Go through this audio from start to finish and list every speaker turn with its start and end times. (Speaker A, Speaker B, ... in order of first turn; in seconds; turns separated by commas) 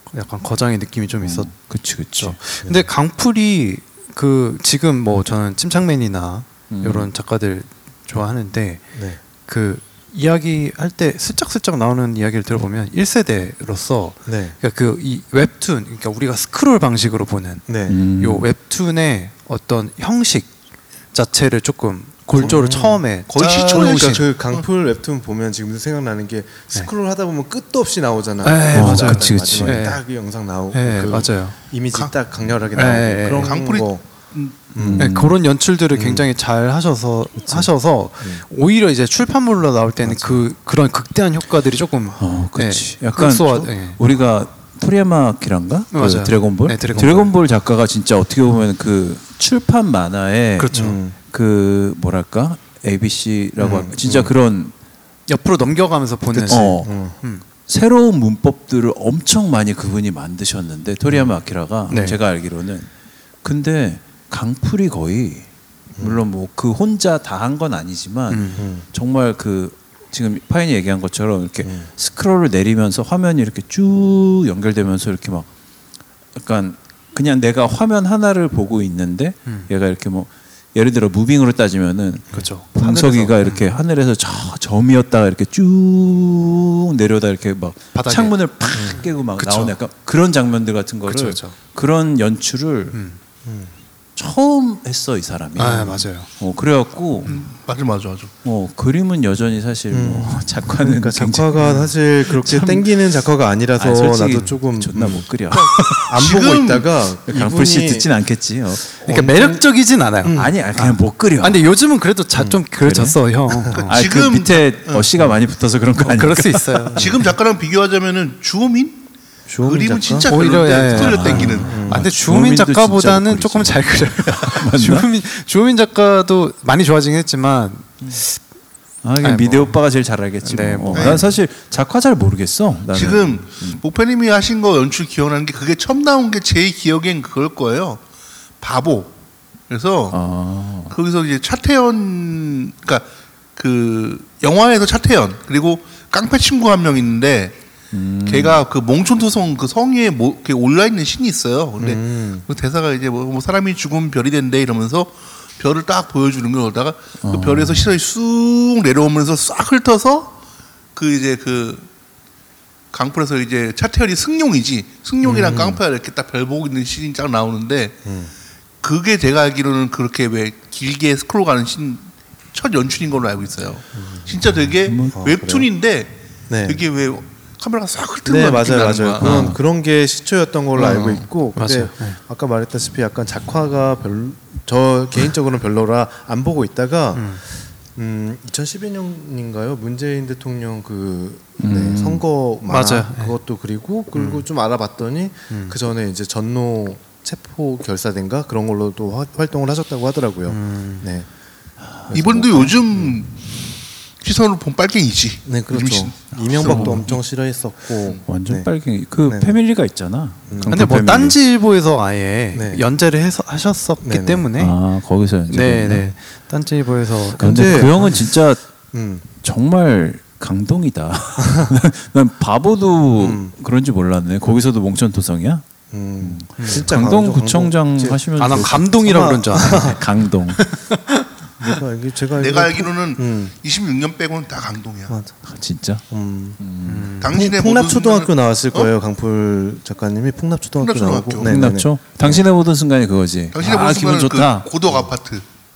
Speaker A: 0.1-1.5, Speaker B: 1.2-2.4, Speaker A: 2.2-8.8, Speaker B: 6.7-7.1, Speaker C: 8.9-9.2, Speaker A: 9.4-20.5, Speaker C: 14.2-14.6, Speaker C: 17.7-18.0, Speaker B: 17.9-18.5, Speaker A: 21.1-24.3, Speaker C: 22.4-34.1, Speaker D: 23.3-24.6, Speaker A: 28.4-30.0, Speaker B: 28.7-29.9, Speaker A: 30.7-31.6, Speaker A: 32.8-33.6, Speaker D: 33.4-34.6, Speaker C: 34.7-35.1, Speaker B: 34.8-35.4, Speaker A: 35.0-44.0, Speaker C: 35.9-36.2, Speaker C: 37.4-37.7, Speaker C: 40.0-40.4, Speaker B: 42.2-54.7, Speaker A: 45.9-47.3, Speaker C: 46.9-47.2, Speaker A: 50.6-51.0, Speaker C: 50.7-51.1, Speaker C: 53.6-54.3, Speaker A: 55.3-57.4, Speaker C: 56.4-57.1, Speaker B: 56.5-56.9, Speaker B: 57.7-62.9, Speaker C: 61.1-61.4, Speaker A: 61.9-62.2, Speaker B: 63.4-65.5, Speaker C: 66.0-66.2, Speaker B: 66.0-75.5, Speaker A: 68.3-68.6, Speaker C: 68.6-68.9, Speaker C: 71.6-71.9, Speaker B: 76.4-93.0, Speaker A: 82.3-83.6, Speaker A: 88.0-89.8, Speaker C: 88.8-89.0, Speaker A: 91.1-91.6, Speaker A: 92.9-93.2, Speaker C: 93.4-93.7, Speaker B: 94.2-97.3, Speaker A: 95.6-96.3, Speaker D: 97.3-98.3, Speaker B: 98.4-101.7, Speaker C: 99.9-108.1, Speaker A: 101.6-101.9, Speaker B: 102.2-102.9, Speaker B: 103.8-106.1, Speaker D: 106.2-106.9, Speaker B: 107.3-109.0, Speaker C: 109.0-110.6, Speaker A: 109.0-113.9, Speaker B: 110.3-111.7, Speaker B: 112.8-113.2, Speaker C: 113.5-113.9, Speaker B: 113.8-116.9, Speaker D: 113.9-115.1, Speaker A: 116.0-117.1, Speaker C: 116.9-117.2, Speaker D: 117.0-119.1, Speaker C: 119.5-120.3, Speaker D: 119.6-121.8, Speaker A: 120.3-128.4, Speaker B: 120.9-125.1, Speaker C: 121.3-122.1, Speaker B: 129.0-133.8, Speaker A: 129.2-129.8, Speaker A: 130.4-131.2, Speaker D: 130.9-131.2, Speaker D: 132.9-138.0, Speaker D: 138.6-139.1, Speaker D: 139.7-140.2, Speaker B: 140.1-140.9, Speaker D: 140.9-147.6, Speaker B: 147.9-148.6, Speaker D: 148.3-160.4, Speaker C: 151.8-152.5, Speaker B: 157.2-157.9, Speaker D: 160.9-161.9, Speaker D: 162.9-168.0, Speaker C: 165.2-165.8, Speaker C: 168.1-168.3, Speaker D: 168.8-179.5, Speaker C: 173.9-174.6, Speaker B: 174.8-175.2, Speaker C: 175.1-175.7, Speaker C: 176.5-176.8, Speaker C: 178.2-201.3, Speaker B: 179.2-179.6, Speaker A: 180.8-182.2, Speaker A: 187.1-187.4, Speaker B: 191.6-192.2, Speaker A: 192.7-193.3, Speaker A: 194.1-194.4, Speaker A: 195.5-195.8, Speaker A: 200.5-201.1, Speaker C: 202.1-203.2, Speaker D: 202.1-203.4, Speaker D: 204.2-207.2, Speaker C: 205.4-208.7, Speaker B: 206.6-207.0, Speaker B: 208.2-211.4, Speaker C: 209.2-209.6, Speaker C: 210.5-210.9, Speaker A: 210.7-214.8, Speaker C: 212.5-212.8, Speaker C: 214.0-214.5, Speaker B: 214.6-216.1, Speaker A: 215.5-217.9, Speaker C: 217.4-218.4, Speaker B: 217.4-218.6, Speaker C: 218.9-219.3, Speaker B: 219.4-225.6, Speaker C: 221.4-221.8, Speaker C: 223.1-223.5, Speaker C: 225.9-228.2, Speaker B: 226.2-230.6, Speaker A: 226.6-226.9, Speaker A: 228.4-230.0, Speaker C: 229.0-230.0, Speaker A: 230.6-231.8, Speaker C: 231.6-233.5, Speaker D: 232.4-235.1, Speaker C: 235.1-235.3, Speaker B: 235.4-236.0, Speaker C: 236.1-236.6, Speaker B: 236.6-237.1, Speaker A: 236.8-237.3, Speaker D: 237.2-238.9, Speaker C: 237.3-242.4, Speaker D: 240.8-241.5, Speaker B: 241.4-244.7, Speaker D: 243.5-245.4